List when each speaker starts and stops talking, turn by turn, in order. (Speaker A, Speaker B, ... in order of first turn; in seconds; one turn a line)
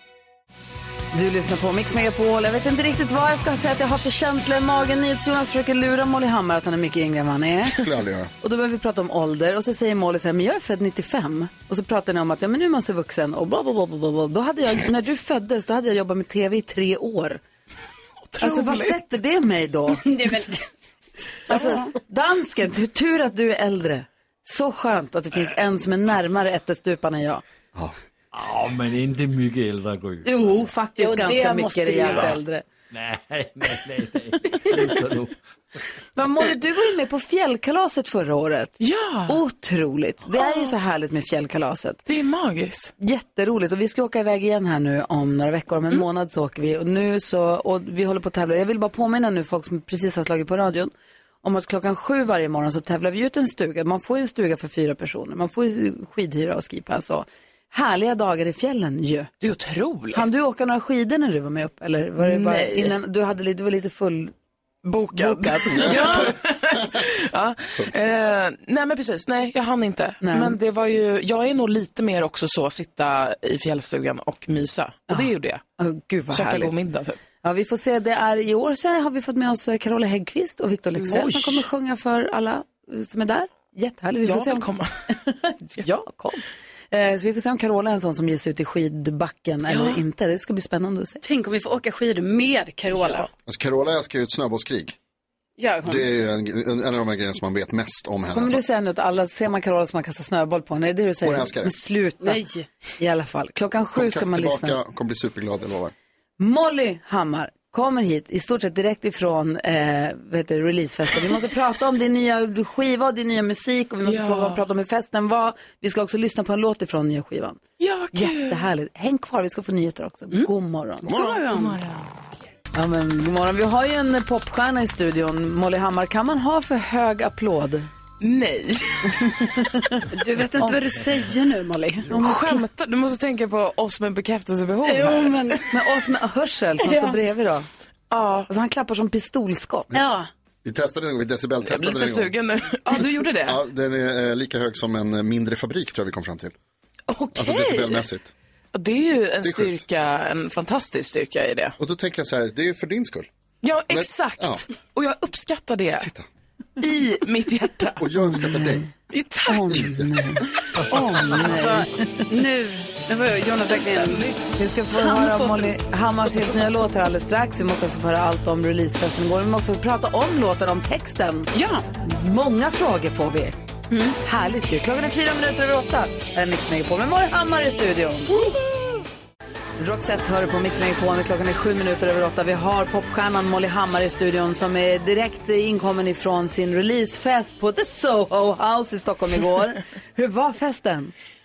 Speaker A: 1.1-7.8
Speaker B: 7.7-8.3
Speaker A: 8.4-17.4
Speaker C: 18.2-19.0
Speaker A: 18.4-20.1
Speaker D: 20.0-20.6
Speaker D: 21.5-21.9
Speaker A: 21.5-27.4
Speaker E: 28.3-30.7
Speaker A: 30.2-32.6
Speaker D: 31.0-32.4
Speaker E: 32.9-35.4
Speaker A: 36.1-42.0
Speaker C: 38.8-39.4
Speaker C: 40.4-40.7
Speaker C: 42.1-42.9
Speaker A: 43.0-50.9
Speaker A: 51.4-59.3
Speaker C: 59.4-60.3
Speaker A: 60.1-64.3
Speaker C: 62.2-63.0
Speaker C: 64.8-75.6
Speaker A: 64.9-66.3
Speaker A: 70.2-70.5
Speaker A: 75.1-76.7
Speaker C: 76.3-77.2
Speaker A: 77.4-91.2
Speaker C: 81.0-81.7
Speaker C: 84.2-85.0
Speaker C: 89.7-90.0
Speaker D: 91.2-93.3
Speaker B: 93.5-95.0
Speaker D: 95.6-96.1
Speaker B: 95.8-98.6
Speaker A: 98.3-102.4
Speaker B: 101.2-101.7
Speaker D: 102.2-102.7
Speaker A: 103.0-104.8
Speaker B: 103.9-105.9
Speaker A: 106.4-117.6
Speaker C: 114.0-114.6
Speaker C: 117.8-118.7
Speaker A: 118.1-121.1
Speaker D: 121.0-121.8
Speaker B: 121.1-121.4
Speaker C: 121.5-122.1
Speaker A: 122.7-127.9
Speaker C: 128.2-129.4
Speaker A: 129.3-130.1
Speaker D: 130.1-132.1
Speaker C: 132.1-135.6
Speaker A: 132.1-132.6
Speaker D: 134.8-135.7
Speaker A: 135.7-137.7
Speaker D: 136.8-137.2
Speaker C: 138.1-138.5
Speaker A: 138.5-139.9
Speaker D: 139.9-140.3
Speaker B: 140.6-142.3
Speaker C: 141.6-143.6
Speaker B: 143.4-146.5
Speaker C: 147.1-148.1
Speaker B: 147.3-148.3
Speaker C: 148.7-151.7
Speaker B: 149.4-149.8
Speaker B: 151.8-153.3
Speaker C: 153.6-156.1
Speaker B: 153.9-154.6
Speaker B: 156.0-156.2
Speaker C: 156.8-158.0
Speaker A: 156.8-157.2
Speaker B: 158.0-158.8
Speaker A: 158.2-158.9
Speaker C: 159.1-159.9
Speaker A: 159.4-162.2
Speaker B: 159.7-160.1
Speaker D: 161.3-164.2
Speaker C: 163.6-164.5
Speaker A: 164.5-171.5
Speaker D: 164.9-165.7
Speaker D: 171.5-171.8
Speaker A: 172.0-173.6
Speaker D: 173.9-174.2
Speaker A: 174.2-178.5
Speaker A: 179.8-191.1